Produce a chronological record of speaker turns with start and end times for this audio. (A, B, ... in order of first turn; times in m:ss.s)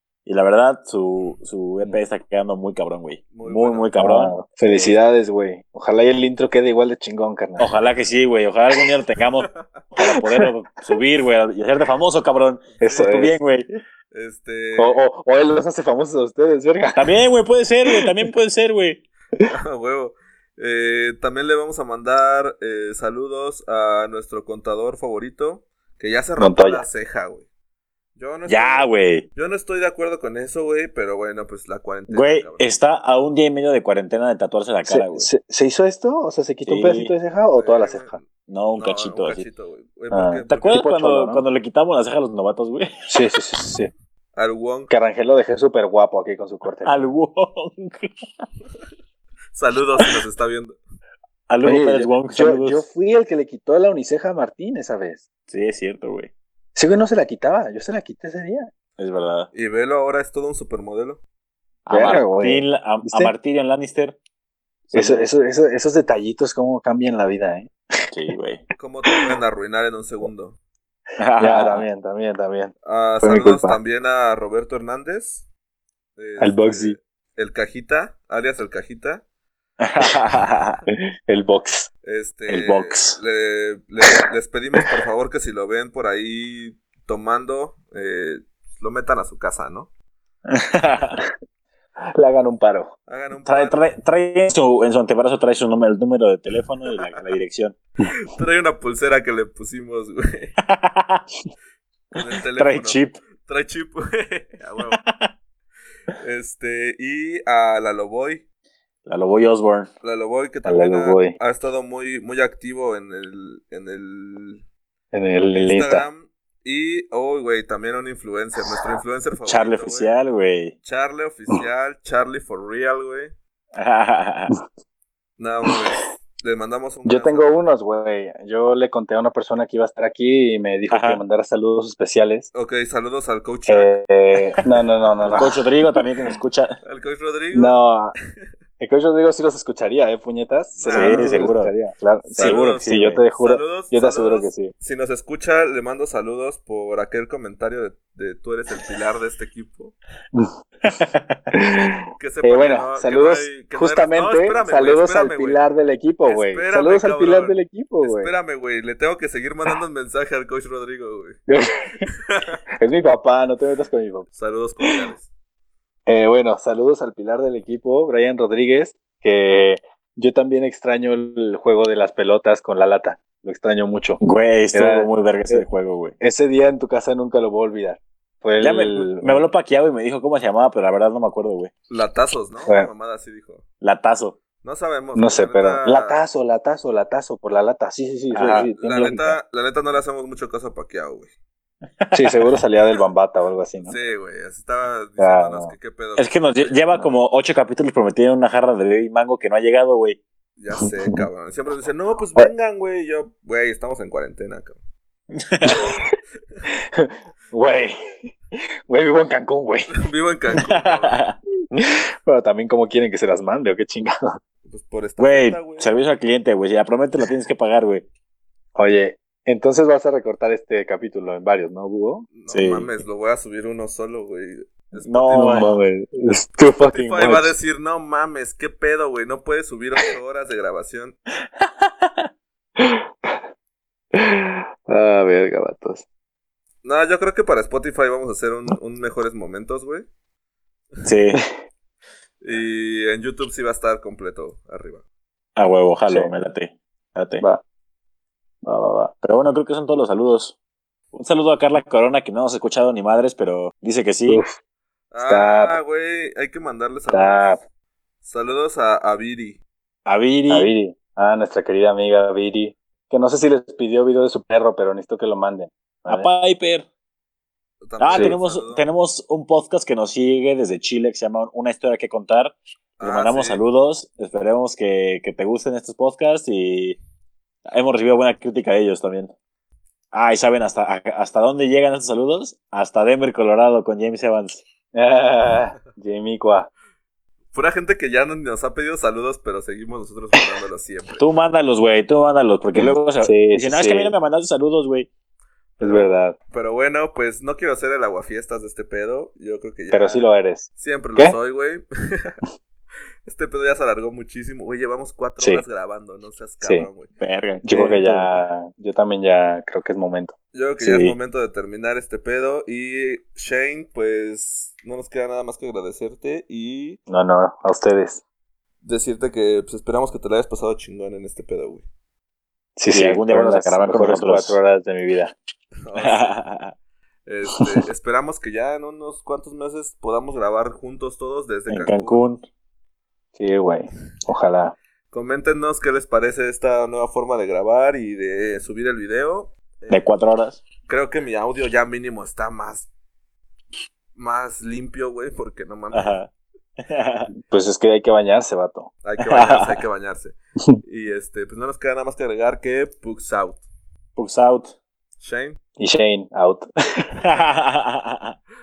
0:00.3-0:04.9 A
0:03.3-0:04.0 B
0:04.0-0:07.7 C
0:07.6-0:13.7 A
0:10.0-0:10.5 C
0:12.8-0:13.2 B
0:12.8-0:13.4 C
0:14.1-0:15.0 B
0:14.8-0:17.1 C
0:16.9-0:19.0 A
0:17.9-0:18.1 C
0:19.5-0:27.5 B
0:26.4-0:26.8 C
0:28.2-0:32.7 B
0:28.4-0:29.3 A
0:32.1-0:35.3 A
0:34.9-0:38.2 C
0:36.6-0:37.1 A
0:37.6-0:38.3 B
0:38.5-0:39.4 A
0:38.8-0:40.8 B
0:40.1-0:41.4 C
0:40.5-0:42.9 A
0:43.1-0:43.9 C
0:44.3-0:44.9 B
0:44.9-0:47.1 C
0:46.8-0:48.1 A
0:49.5-0:50.8 B
0:51.5-0:52.8 A
0:51.6-0:55.2 C
0:55.5-0:56.3 A
0:56.8-0:58.7 C
0:59.0-0:59.5 A
0:59.5-1:01.2 B
1:01.8-1:04.2 A
1:01.9-1:03.3 C
1:04.9-1:05.3 A
1:04.9-1:07.7 C
1:08.1-1:08.6 A
1:08.8-1:10.6 B
1:11.2-1:11.8 A
1:11.4-1:13.8 C
1:12.8-1:15.4 B
1:16.2-1:19.2 B
1:16.4-1:17.0 C
1:19.8-1:20.8 A
1:21.3-1:21.9 C
1:22.0-1:29.9 B
1:22.5-1:23.2 A
1:30.5-1:31.2 A
1:32.1-1:32.9 C
1:33.1-1:33.8 B
1:33.4-1:37.8 A
1:38.3-1:40.6 B
1:40.6-1:41.3 A
1:42.1-1:45.0 B
1:42.6-1:43.2 A
1:44.9-1:45.3 A
1:46.2-1:48.4 B
1:49.0-1:49.9 A
1:50.0-1:54.6 B
1:50.6-1:51.4 C
1:55.1-1:56.0 C
1:55.5-2:00.1 B
1:59.4-2:00.7 A
2:00.8-2:03.3 B
2:03.8-2:04.5 A
2:05.4-2:07.6 B
2:07.0-2:12.5 C
2:10.9-2:11.2 A
2:12.5-2:14.0 B
2:13.7-2:15.6 C
2:15.2-2:15.5 B
2:15.3-2:16.8 A
2:16.8-2:17.8 B
2:17.5-2:18.2 C
2:18.8-2:24.7 C
2:20.8-2:21.5 B
2:20.9-2:21.7 A
2:22.3-2:29.9 B
2:22.4-2:23.2 A
2:30.8-2:31.3 A
2:31.5-2:38.3 C
2:32.2-2:35.6 B
2:36.3-2:41.4 B
2:41.5-2:42.1 C
2:42.1-2:42.6 B
2:42.8-2:44.3 C
2:44.3-2:45.3 B
2:46.1-2:54.2 C
2:54.2-2:56.2 A
2:54.7-2:55.7 C
2:56.2-2:59.4 C
2:58.6-3:01.7 A
3:01.9-3:03.6 B
3:03.8-3:04.4 A
3:04.6-3:06.2 B
3:05.1-3:09.4 C
3:08.3-3:08.7 A
3:08.5-3:11.3 B
3:12.0-3:12.4 A
3:12.1-3:13.9 C
3:13.8-3:16.8 B
3:15.2-3:15.7 C
3:16.2-3:20.2 A
3:20.6-3:24.8 B
3:25.3-3:25.9 A
3:25.6-3:26.1 C
3:26.9-3:28.3 C
3:28.9-3:29.9 C
3:30.0-3:31.2 B
3:30.6-3:31.4 A
3:31.7-3:34.4 C
3:34.6-3:35.9 B
3:35.2-3:38.0 A
3:38.8-3:42.3 C
3:42.3-3:45.7 B
3:42.5-3:42.9 A
3:45.0-3:45.7 A
3:45.3-3:47.5 C
3:46.9-3:51.2 B
3:51.6-3:52.3 A
3:52.8-3:53.4 C
3:54.1-3:56.0 C
3:56.8-4:00.0 B
4:01.0-4:01.4 A
4:02.4-4:05.0 B
4:05.6-4:07.4 A
4:08.6-4:09.1 C
4:09.2-4:10.6 A
4:11.1-4:14.4 A
4:14.3-4:14.6 C
4:15.1-4:17.6 B
4:15.2-4:15.8 C
4:17.1-4:17.6 C
4:18.2-4:19.6 B
4:20.0-4:20.7 A
4:20.5-4:26.3 C
4:26.1-4:26.8 A
4:27.8-4:28.9 B
4:28.0-4:37.0 A
4:28.1-4:28.4 C
4:33.0-4:33.6 B
4:37.7-4:39.3 A
4:40.1-4:44.6 A
4:44.9-4:46.7 C
4:47.5-4:51.2 B
4:51.2-4:55.1 A
4:52.7-4:54.1 C
4:55.8-4:56.4 C
4:55.8-5:00.3 B
4:59.9-5:01.4 C
5:00.8-5:02.4 B
5:03.2-5:07.1 B
5:05.4-5:05.6 C
5:06.6-5:06.9 C
5:07.2-5:08.4 A
5:07.6-5:10.3 C
5:10.5-5:17.0 B
5:10.8-5:11.2 A
5:17.1-5:18.2 C
5:18.8-5:21.8 B
5:22.8-5:25.3 C
5:22.9-5:24.6 A
5:25.8-5:26.4 B
5:26.0-5:26.7 A
5:27.3-5:32.2 B
5:27.6-5:27.8 C
5:31.7-5:32.4 A
5:33.4-5:34.7 C
5:35.1-5:40.0 B
5:39.9-5:40.6 A
5:40.9-5:42.9 B
5:44.1-5:46.2 B
5:45.9-5:46.3 A
5:46.8-5:47.3 A
5:47.5-5:48.9 C
5:49.0-5:53.6 B
5:49.2-5:49.8 A
5:54.2-5:54.7 A
5:55.2-5:55.6 B
5:55.8-5:57.2 C
5:57.2-5:58.4 A